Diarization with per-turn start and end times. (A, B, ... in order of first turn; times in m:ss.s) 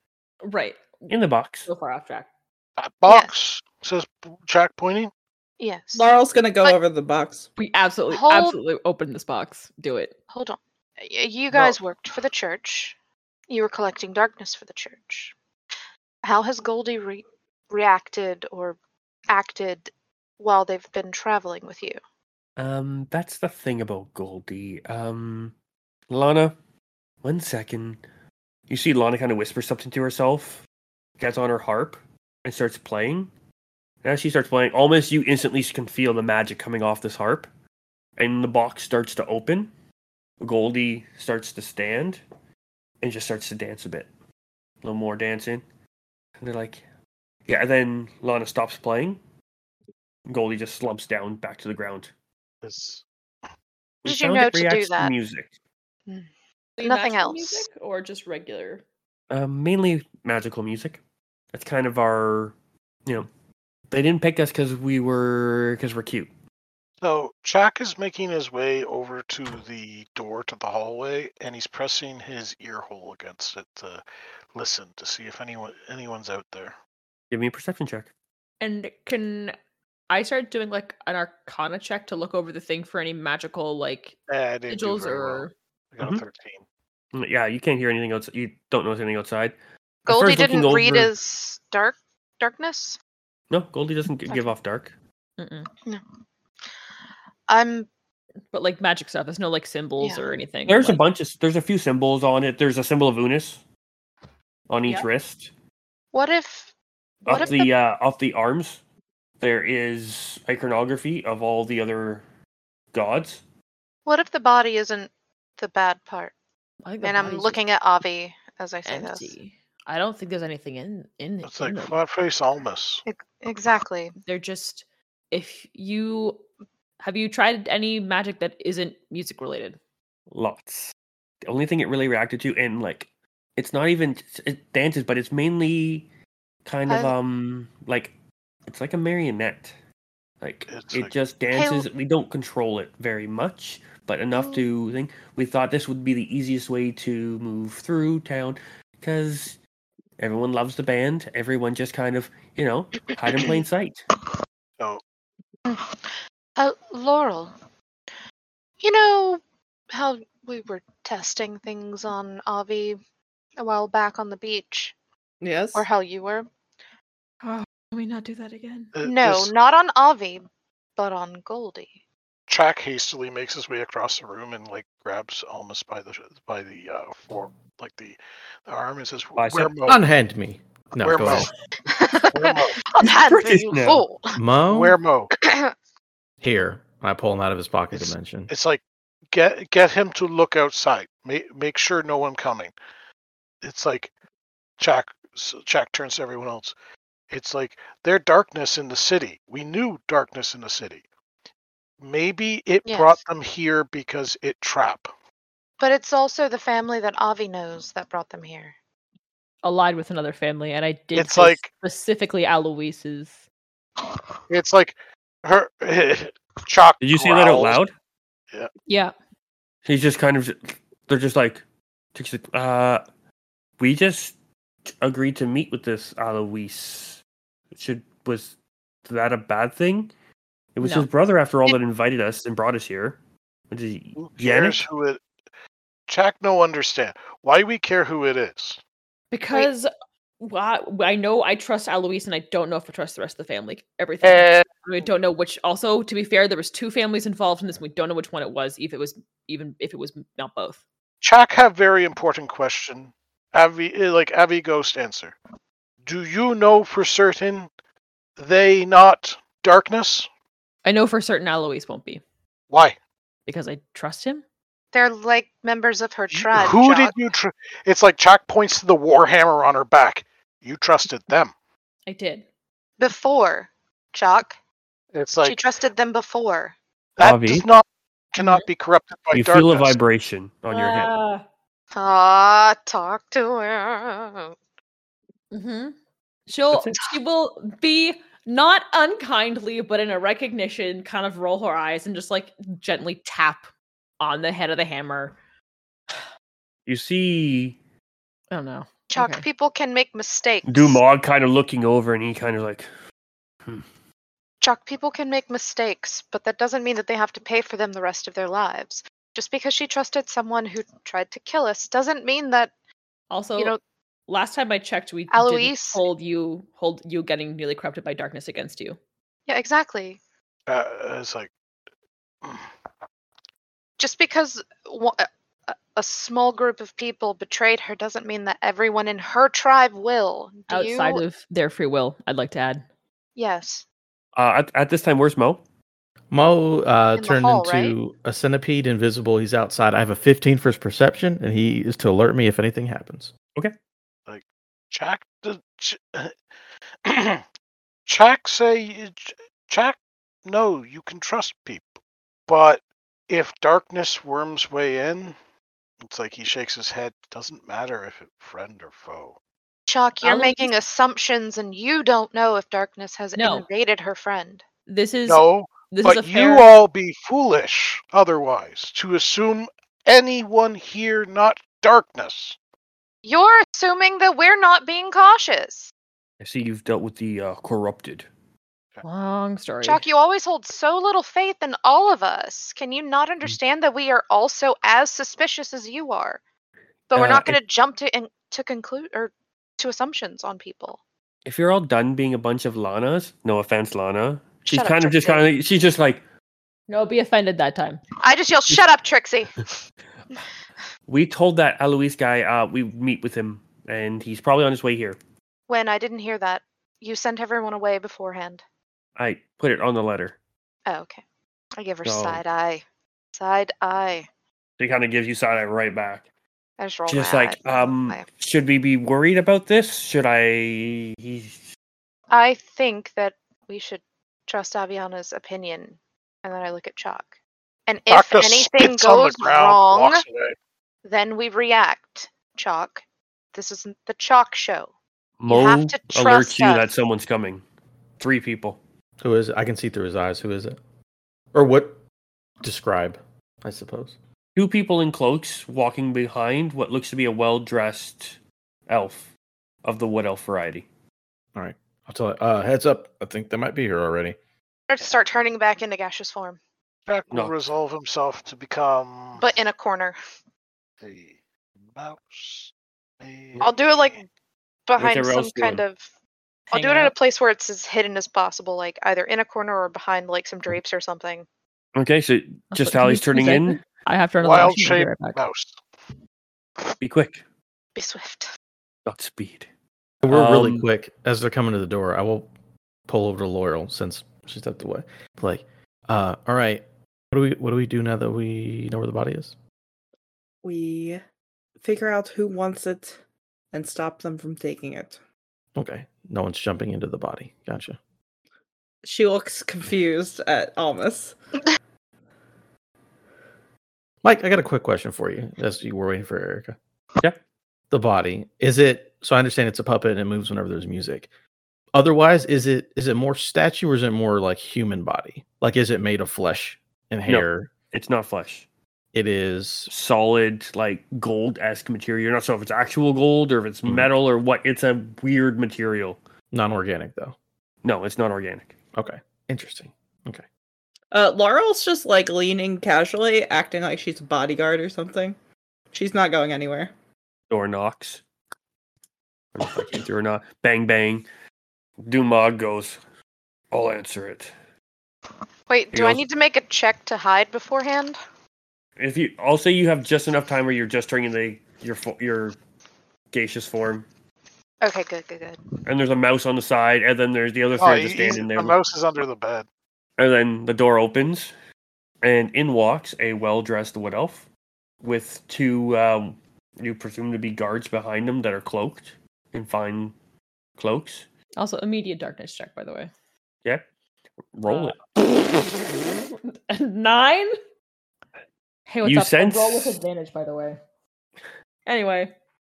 0:00.4-0:01.1 A
0:01.1-0:01.7 B
0:01.7-0:02.3 A
0:02.8-0:05.1 C
0:05.6-0:06.1 D
0:06.0-0:07.5 E
0:07.6-0:10.1 A
0:08.1-0:08.6 D
0:10.3-0:13.0 D
0:11.5-0:11.8 C
0:13.5-0:15.3 D
0:16.2-0:18.8 D
0:19.3-0:22.0 D
0:22.6-0:25.5 B
0:26.1-0:26.6 B
0:27.2-0:28.0 B
0:28.7-0:30.6 B
0:31.2-0:33.3 B
0:34.0-0:37.5 B
0:38.2-0:39.7 B
0:40.4-0:42.2 B
0:43.0-0:44.1 B
0:44.8-0:45.6 B
0:46.4-0:46.8 B
0:47.5-0:49.2 B
0:50.3-0:52.1 B
0:52.6-0:53.0 C
0:54.0-0:55.5 B
0:54.0-0:55.1 D
0:56.8-0:58.8 A
0:56.8-0:57.6 D
0:59.3-1:01.0 B
1:01.5-1:02.6 B
1:03.9-1:06.3 B
1:07.0-1:14.0 C
1:14.6-1:16.8 C
1:17.3-1:18.1 B
1:18.6-1:19.6 A
1:20.1-1:24.2 A
1:24.3-1:26.6 C
1:24.7-1:25.5 A
1:27.1-1:29.6 B
1:30.1-1:33.0 D
1:30.1-1:31.1 B
1:33.5-1:34.9 B
1:35.4-1:35.7 A
1:37.5-1:37.9 D
1:38.5-1:41.0 A
1:40.7-1:43.6 B
1:44.7-1:45.5 B
1:46.1-1:46.7 D
1:47.2-1:47.7 D
1:47.3-1:48.8 B
1:49.4-1:52.2 B
1:52.9-1:53.4 B
1:54.1-1:56.3 D
1:56.8-1:57.6 A
1:57.0-1:59.3 D
1:58.9-2:02.0 A
2:01.4-2:03.0 C
2:03.1-2:04.2 D
2:04.3-2:06.4 A
2:07.0-2:09.8 A
2:10.3-2:10.9 B
2:11.4-2:16.1 B
2:16.6-2:18.1 B
2:16.9-2:17.1 D
2:18.7-2:19.8 B
2:20.4-2:29.6 B
2:20.7-2:21.1 C
2:21.5-2:21.9 D
2:24.4-2:24.6 D
2:30.2-2:34.0 B
2:35.7-2:37.5 D
2:38.8-2:39.4 D
2:39.9-2:43.0 D
2:43.6-2:44.9 D
2:45.4-2:45.9 E
2:45.7-2:46.5 D
2:47.4-2:48.9 A
2:49.0-2:49.5 C
2:49.0-2:50.4 D
2:51.0-2:51.9 D
2:52.5-3:00.0 C
2:59.4-2:59.7 B
2:59.9-3:01.5 F
3:01.0-3:01.5 C
3:01.9-3:04.4 D
3:02.3-3:02.8 C
3:03.0-3:04.0 B
3:04.4-3:05.0 F
3:04.6-3:05.3 C
3:05.4-3:05.7 D
3:06.4-3:08.5 F
3:07.9-3:12.7 C
3:13.6-3:14.1 C
3:14.8-3:16.8 C
3:17.3-3:21.0 C
3:22.0-3:25.1 C
3:22.9-3:23.2 D
3:25.8-3:28.7 D
3:29.6-3:33.4 A
3:31.2-3:31.7 C
3:34.5-3:37.8 C
3:37.0-3:37.9 B
3:38.9-3:39.1 A
3:39.8-3:43.0 B
3:43.8-3:44.4 B
3:45.0-3:47.2 B
3:47.7-3:50.1 B
3:50.8-3:53.2 B
3:50.8-3:51.1 A
3:53.7-3:54.8 B
3:54.2-3:55.2 C
3:56.1-3:58.8 C
3:59.3-3:59.9 A
4:00.4-4:10.8 A
4:04.2-4:04.6 C
4:11.2-4:15.4 C
4:16.0-4:17.7 C
4:18.4-4:20.3 C
4:20.8-4:22.2 A
4:22.7-4:23.0 C
4:23.5-4:24.4 A
4:24.9-4:27.1 D
4:26.3-4:31.5 C
4:32.1-4:32.5 A
4:33.0-4:34.6 D
4:35.1-4:35.6 C
4:35.4-4:36.8 D
4:37.2-4:40.0 C
4:37.2-4:37.7 B
4:38.4-4:38.7 A
4:39.3-4:41.1 B
4:40.7-4:41.4 A
4:42.0-4:44.5 D
4:45.5-4:46.0 A
4:46.5-4:53.7 A
4:46.7-4:47.0 B
4:54.2-4:55.4 A
4:56.9-4:57.8 B
4:58.5-4:59.4 A
4:59.1-5:01.0 D
5:00.7-5:02.9 B
5:04.6-5:12.7 D
5:13.3-5:13.8 A
5:14.3-5:19.0 A
5:15.3-5:16.0 D
5:19.5-5:20.2 D
5:20.7-5:21.5 C
5:24.0-5:31.2 D
5:30.7-5:32.8 A
5:33.4-5:33.8 D
5:34.4-5:35.6 B
5:36.3-5:43.3 F
5:37.2-5:38.0 D
5:44.3-5:46.4 C
5:47.0-5:47.4 C
5:48.1-5:55.4 C
5:56.0-5:59.4 C
5:59.9-6:04.6 D
6:00.2-6:00.7 A
6:03.4-6:03.7 A
6:04.9-6:06.8 A
6:05.3-6:12.6 C
6:13.2-6:15.9 D
6:16.4-6:18.3 B
6:19.0-6:20.0 A
6:19.8-6:26.4 D
6:27.1-6:31.0 D
6:27.2-6:27.6 B
6:31.4-6:36.2 B
6:34.7-6:35.4 D
6:36.9-6:38.0 A
6:38.2-6:39.7 D
6:41.1-6:45.2 B
6:45.7-6:48.6 D
6:49.2-6:50.4 B
6:50.9-6:51.2 D
6:51.8-6:52.8 D
6:52.0-6:52.4 B
6:53.4-6:54.3 D
6:54.8-6:56.3 B
6:56.8-6:58.2 D
6:57.1-7:01.7 B
7:02.3-7:07.3 D
7:07.9-7:10.2 D
7:08.1-7:10.6 C
7:11.0-7:13.0 D
7:13.5-7:14.9 D
7:15.4-7:17.6 B
7:15.5-7:16.9 D
7:18.2-7:18.8 B
7:19.2-7:20.8 F
7:21.5-7:22.0 F
7:22.6-7:24.2 F
7:24.6-7:29.3 B
7:29.8-7:30.9 B
7:31.6-7:34.4 F
7:34.9-7:36.6 D
7:37.1-7:39.5 C
7:39.4-7:40.2 D
7:41.0-7:44.2 C
7:43.6-7:44.3 D
7:44.9-7:46.1 D
7:45.0-7:45.8 B
7:46.7-7:47.1 A
7:46.7-7:51.4 D
7:52.0-7:53.8 B
7:52.7-7:55.4 A
7:54.4-7:55.8 C
7:57.0-7:57.4 B
7:58.0-7:58.5 D
7:59.1-7:59.7 B
8:00.2-8:02.5 F
8:00.3-8:00.9 B
8:03.1-8:09.6 F
8:10.6-8:11.2 E
8:11.8-8:13.2 E
8:13.7-8:15.2 E
8:15.8-8:18.0 F
8:19.0-8:21.4 E
8:24.2-8:26.8 F
8:27.9-8:31.3 F
8:31.9-8:37.7 F
8:37.3-8:38.7 B
8:39.1-8:39.9 F
8:39.9-8:46.2 B
8:46.5-8:47.4 F
8:47.8-8:48.8 B
8:49.0-8:50.4 F
8:51.1-8:55.4 E
8:55.9-8:56.9 E
8:57.5-8:58.2 B
8:59.6-9:01.3 B
9:02.0-9:03.0 B
9:03.7-9:04.5 B
9:05.7-9:08.2 D
9:05.9-9:06.2 B
9:09.0-9:12.6 B
9:13.3-9:14.1 B
9:14.8-9:15.6 D
9:15.8-9:18.8 B
9:17.8-9:19.7 C
9:20.2-9:21.5 B
9:22.2-9:24.5 B
9:25.0-9:30.2 B
9:30.8-9:31.3 B
9:31.6-9:33.1 A
9:34.6-9:35.0 B
9:34.7-9:37.5 A
9:38.9-9:40.8 A
9:39.0-9:40.0 B
9:41.9-9:42.3 A